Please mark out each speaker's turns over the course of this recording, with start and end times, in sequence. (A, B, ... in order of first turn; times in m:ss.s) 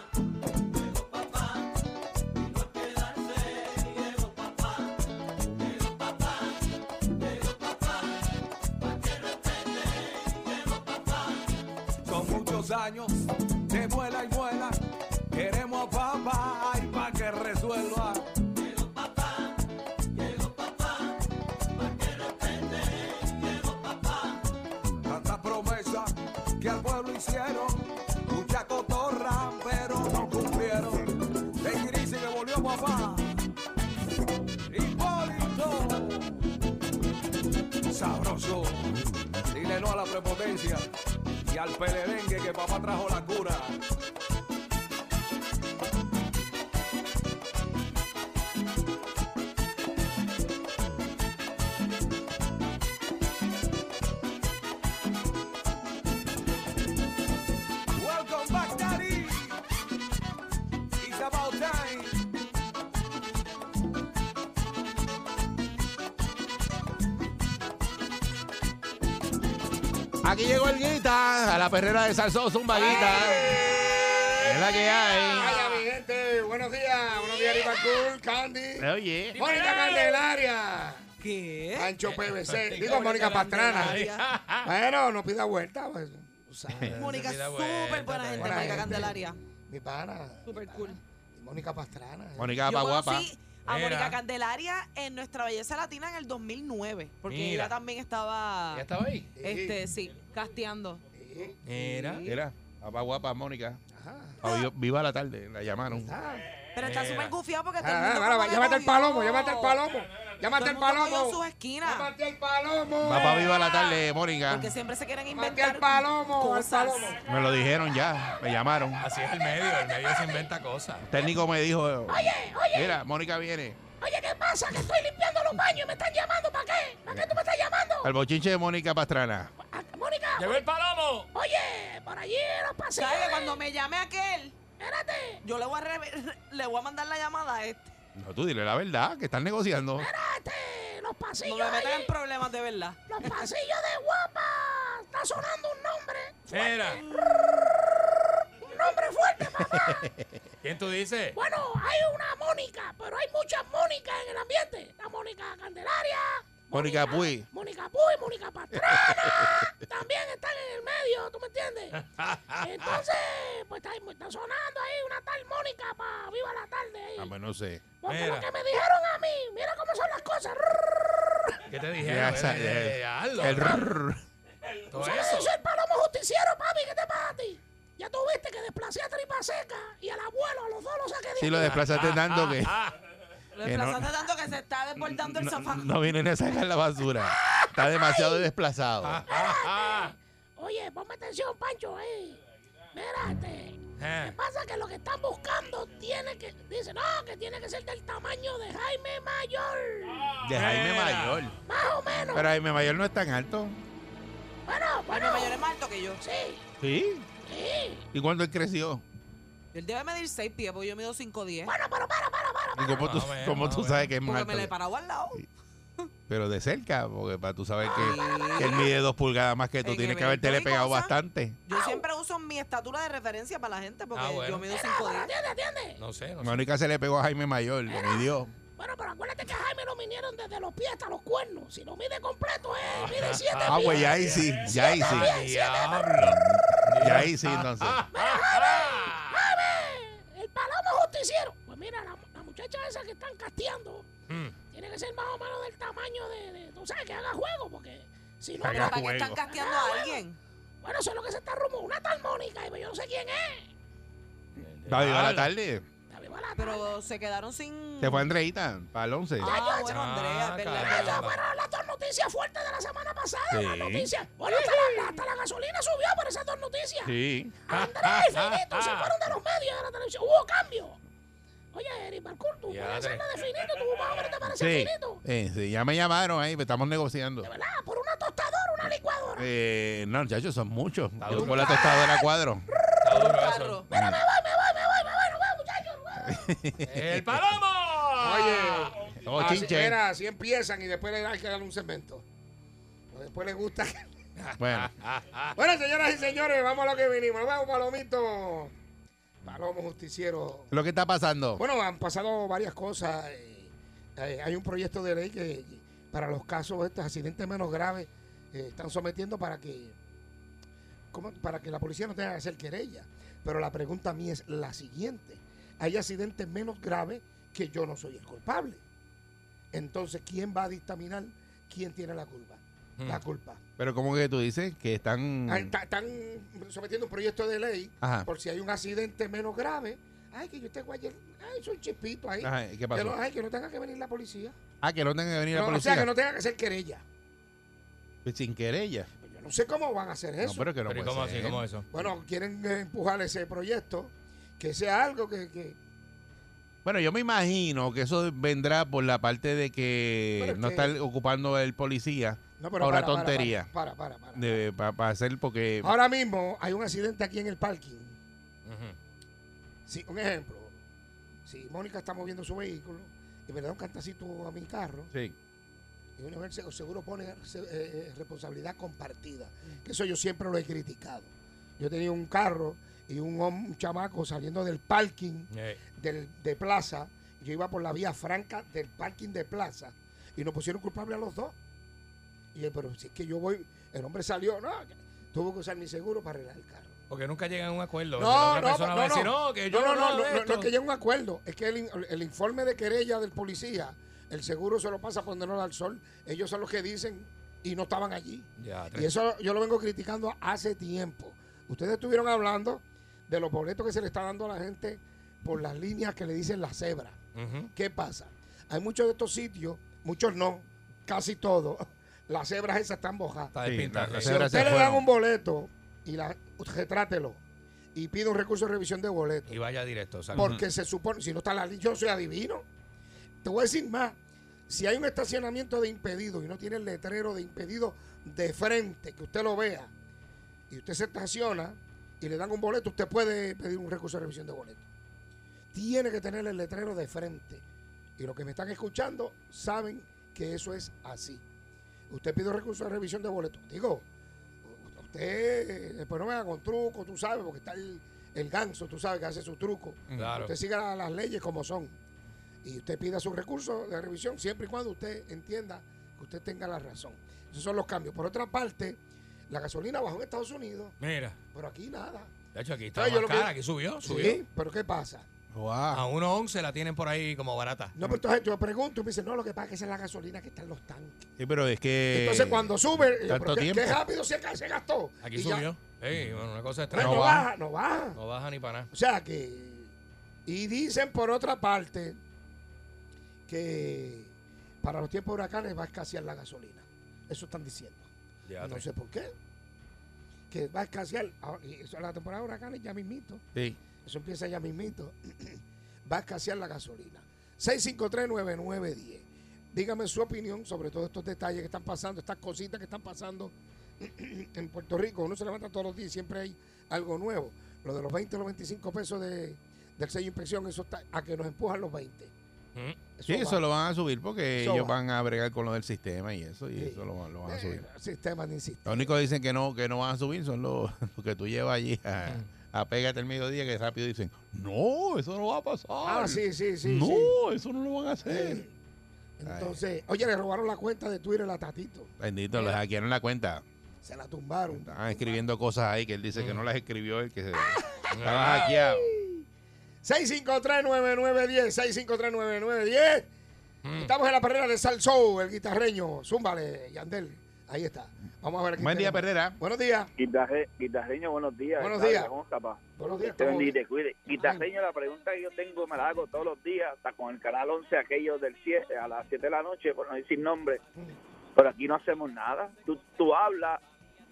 0:12.0-0:13.1 A
0:13.7-0:14.8 A
0:15.3-0:18.3 A
0:25.0-0:33.4 A
0:34.7-0:36.3 A
0:37.9-0:38.9 A
0:39.5-0:40.8 A
0:41.5-0:43.8 A
0:57.9-0:59.6 A
1:01.0-1:02.2 A
1:10.2-1:13.6 B
1:12.8-1:13.4 C
1:12.8-1:13.7 D
1:12.9-1:15.8 E
1:14.4-1:15.6 B
1:15.3-1:21.1 C
1:18.8-1:19.4 B
1:19.4-1:20.0 E
1:19.5-1:20.2 D
1:21.2-1:22.0 D
1:21.7-1:24.0 C
1:22.1-1:22.9 E
1:22.7-1:24.2 D
1:23.7-1:24.7 E
1:24.6-1:27.2 C
1:26.9-1:29.1 E
1:26.9-1:29.4 D
1:28.4-1:32.6 C
1:30.5-1:31.0 D
1:32.4-1:33.3 B
1:32.6-1:38.8 D
1:33.7-1:34.2 E
1:37.3-1:37.8 E
1:38.7-1:39.3 E
1:39.4-1:39.8 C
1:39.4-1:41.0 D
1:41.2-1:41.6 C
1:41.7-1:42.3 E
1:41.8-1:42.4 D
1:42.3-1:43.8 B
1:43.9-1:44.4 C
1:44.4-1:46.1 B
1:45.9-1:46.6 C
1:46.7-1:49.8 D
1:46.8-1:47.4 E
1:47.8-1:53.6 C
1:50.5-1:52.1 D
1:53.0-1:54.7 B
1:53.1-1:57.2 D
1:55.3-1:57.2 C
1:57.2-1:59.0 B
1:59.0-2:01.1 E
1:59.6-2:00.5 F
2:01.1-2:03.8 B
2:02.1-2:03.0 F
2:04.0-2:08.1 F
2:08.0-2:09.5 B
2:09.6-2:10.6 F
2:10.4-2:11.3 E
2:11.3-2:13.6 F
2:13.0-2:14.6 D
2:14.8-2:15.4 F
2:15.4-2:17.9 D
2:18.2-2:20.1 B
2:20.0-2:22.1 F
2:21.4-2:23.4 D
2:23.1-2:27.4 F
2:26.5-2:27.0 E
2:28.6-2:30.0 F
2:29.5-2:30.2 B
2:30.6-2:31.4 E
2:31.4-2:42.0 F
2:36.7-2:37.5 B
2:38.7-2:39.7 B
2:41.9-2:43.0 E
2:42.6-2:47.3 F
2:47.2-2:47.8 B
2:48.0-2:51.6 F
2:48.1-2:48.5 E
2:51.7-2:54.0 E
2:52.0-2:54.2 B
2:54.9-2:55.5 E
2:54.9-3:01.8 F
3:01.4-3:02.8 B
3:01.6-3:03.0 E
3:03.5-3:05.9 D
3:03.6-3:04.1 B
3:05.0-3:09.2 B
3:07.5-3:08.4 F
3:09.0-3:10.1 E
3:09.3-3:12.4 F
3:12.9-3:20.3 F
3:14.0-3:14.4 E
3:20.3-3:21.4 E
3:20.4-3:21.6 B
3:21.7-3:22.5 F
3:22.3-3:23.8 B
3:24.7-3:25.7 F
3:25.1-3:26.2 D
3:26.2-3:26.6 F
3:26.8-3:27.3 B
3:27.4-3:28.1 F
3:28.1-3:29.0 B
3:29.7-3:31.8 D
3:31.6-3:33.2 F
3:32.8-3:34.7 B
3:33.0-3:34.1 E
3:34.2-3:35.4 D
3:36.3-3:41.6 B
3:37.9-3:38.9 D
3:39.8-3:41.1 D
3:41.7-3:45.3 D
3:41.8-3:42.0 F
3:44.1-3:44.7 E
3:44.7-3:46.0 F
3:46.0-3:46.7 E
3:46.4-3:48.5 B
3:47.9-3:56.1 F
3:52.9-3:59.4 E
3:53.7-3:55.4 B
3:56.2-3:58.0 B
3:58.1-4:04.1 F
4:04.3-4:04.6 E
4:04.7-4:10.2 F
4:08.6-4:09.4 B
4:08.6-4:10.4 D
4:10.8-4:13.7 F
4:14.6-4:15.5 E
4:14.9-4:15.8 B
4:16.1-4:16.9 F
4:16.6-4:18.3 D
4:18.0-4:19.5 B
4:19.4-4:21.3 D
4:19.5-4:20.0 F
4:19.8-4:21.4 E
4:20.8-4:27.2 F
4:23.5-4:24.1 B
4:24.5-4:25.2 D
4:27.0-4:27.5 B
4:27.7-4:31.0 F
4:27.7-4:29.1 E
4:31.7-4:35.2 F
4:32.7-4:33.3 E
4:34.5-4:37.5 B
4:37.4-4:39.5 F
4:39.4-4:42.6 B
4:41.2-4:41.7 E
4:41.4-4:42.2 D
4:41.7-4:42.1 F
4:43.0-4:43.8 E
4:43.1-4:43.9 D
4:43.9-4:44.2 B
4:43.9-4:46.5 F
4:46.2-4:47.4 B
4:46.8-4:49.6 E
4:48.2-4:52.2 C
4:49.3-4:50.0 B
4:53.1-4:54.1 C
4:54.4-4:55.6 E
4:54.6-4:54.9 B
4:55.6-4:58.7 C
4:59.4-5:00.7 C
5:00.7-5:01.6 B
5:01.6-5:10.0 C
5:11.1-5:18.8 C
5:19.7-5:23.6 C
5:23.8-5:25.7 B
5:25.5-5:34.6 C
5:28.0-5:28.3 B
5:32.4-5:33.2 B
5:34.8-5:36.1 B
5:35.5-5:37.0 C
5:38.2-5:39.1 B
5:39.2-5:40.7 C
5:40.4-5:41.6 B
5:40.9-5:41.9 E
5:41.9-5:45.8 C
5:46.8-5:53.7 B
5:50.4-5:50.9 C
5:52.6-5:54.6 C
5:54.4-5:56.0 B
5:55.8-5:58.2 C
5:58.7-5:59.0 E
5:59.9-6:00.8 C
6:01.5-6:05.1 C
6:06.2-6:21.6 C
6:15.5-6:15.8 E
6:22.6-6:26.9 C
6:27.1-6:30.7 E
6:28.2-6:47.2 C
6:38.6-6:39.1 E
6:47.4-6:47.7 E
6:47.8-6:53.6 C
6:53.5-6:54.7 E
6:53.6-6:55.1 B
6:54.2-6:57.4 C
6:58.0-6:59.6 C
6:59.5-7:00.5 E
7:00.4-7:00.6 B
7:00.4-7:02.7 C
7:03.4-7:04.2 C
7:04.7-7:09.9 C
7:10.7-7:14.8 C
7:15.7-7:17.6 C
7:18.2-7:21.4 C
7:22.1-7:24.1 C
7:24.6-7:32.0 C
7:30.1-7:30.4 B
7:30.2-7:30.5 E
7:32.6-7:41.0 C
7:41.0-7:41.4 E
7:41.5-7:42.3 C
7:42.5-7:44.4 E
7:42.9-7:45.3 C
7:45.5-7:46.0 B
7:45.9-7:48.0 E
7:48.0-7:51.3 C
7:51.4-7:54.0 B
7:52.1-7:55.7 C
7:55.2-7:57.4 E
7:56.1-7:56.4 B
7:56.9-7:58.2 C
7:56.9-7:57.4 B
7:58.2-7:58.9 E
7:58.9-7:59.9 C
8:00.5-8:02.2 C
8:03.5-8:08.1 C
8:08.5-8:08.8 E
8:08.6-8:09.3 C
8:10.5-8:13.4 C
8:14.0-8:32.3 C
8:33.2-8:33.6 C
8:33.3-8:37.8 B
8:34.6-8:35.0 C
8:36.8-8:39.1 C
8:38.9-8:48.6 B
8:46.0-8:47.4 C
8:48.3-8:48.7 C
8:49.4-8:52.8 C
8:49.4-8:49.8 B
8:52.2-8:53.6 B
8:54.0-8:55.2 C
8:54.7-8:59.2 B
8:56.4-8:56.6 E
8:57.6-8:59.4 C
8:58.1-8:58.7 E
9:00.0-9:03.3 C
9:03.8-9:04.1 E
9:04.0-9:10.1 C
9:08.8-9:09.6 B
9:10.2-9:20.8 G
9:11.8-9:12.3 C
9:13.0-9:13.8 C
9:14.3-9:14.6 C
9:21.6-9:23.8 G